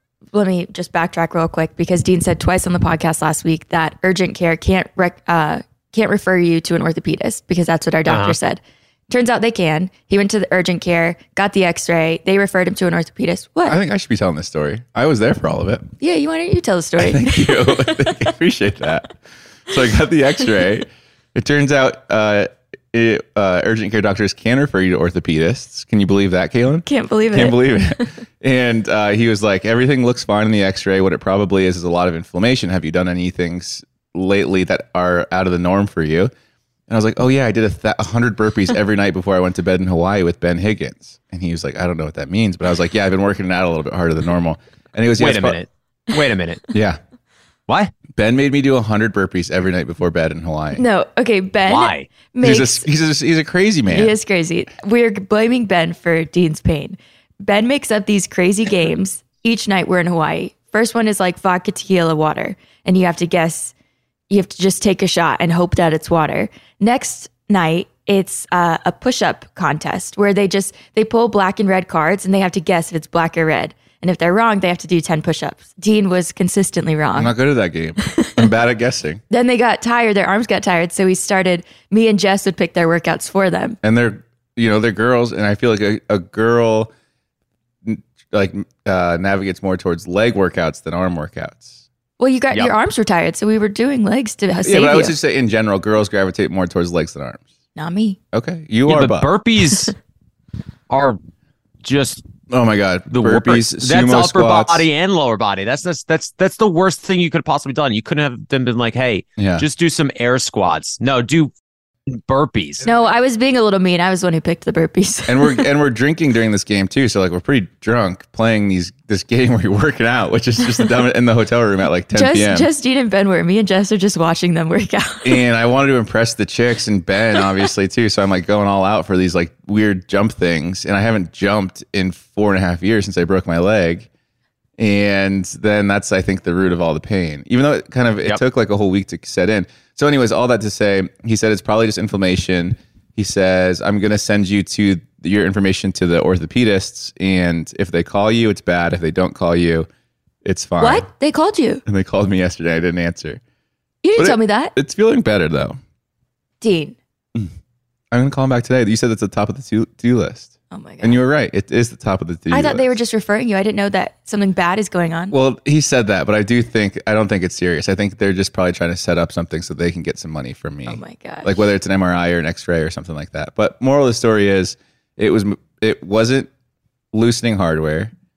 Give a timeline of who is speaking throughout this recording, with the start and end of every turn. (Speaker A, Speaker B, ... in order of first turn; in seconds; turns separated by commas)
Speaker A: 0.3-13.8, Speaker B: 8.1-8.4, Speaker C: 13.7-15.9, Speaker A: 16.0-18.2, Speaker C: 17.0-36.3, Speaker A: 26.9-28.1, Speaker C: 36.9-45.6, Speaker B: 45.2-46.6, Speaker C: 46.7-47.0, Speaker C: 48.1-50.8, Speaker A: 50.8-52.9, Speaker B: 51.7-52.1, Speaker C: 52.4-54.2, Speaker A: 53.9-63.7, Speaker A: 64.3-77.3, Speaker C: 77.2-79.2, Speaker A: 79.3-83.8, Speaker C: 83.8-86.9, Speaker C: 87.8-91.8, Speaker A: 92.2-95.2, Speaker C: 94.6-97.4, Speaker A: 97.8-98.2, Speaker C: 98.3-99.3, Speaker B: 98.9-99.9, Speaker B: 100.9-101.2, Speaker B: 101.8-102.3, Speaker C: 102.5-104.9, Speaker B: 103.1-111.5, Speaker C: 109.4-109.7, Speaker B: 112.1-112.8, Speaker A: 112.8-115.7, Speaker C: 115.3-122.7, Speaker A: 122.1-125.4, Speaker C: 125.2-134.1, Speaker C: 134.8-149.9, Speaker C: 150.4-151.1, Speaker A: 150.8-151.8, Speaker C: 151.9-153.4, Speaker A: 154.0-154.7, Speaker C: 154.2-155.8, Speaker A: 156.6-157.0, Speaker C: 158.1-163.0, Speaker A: 160.7-161.2, Speaker A: 162.5-165.4, Speaker C: 165.3-176.5, Speaker A: 170.9-171.6, Speaker C: 177.1-178.1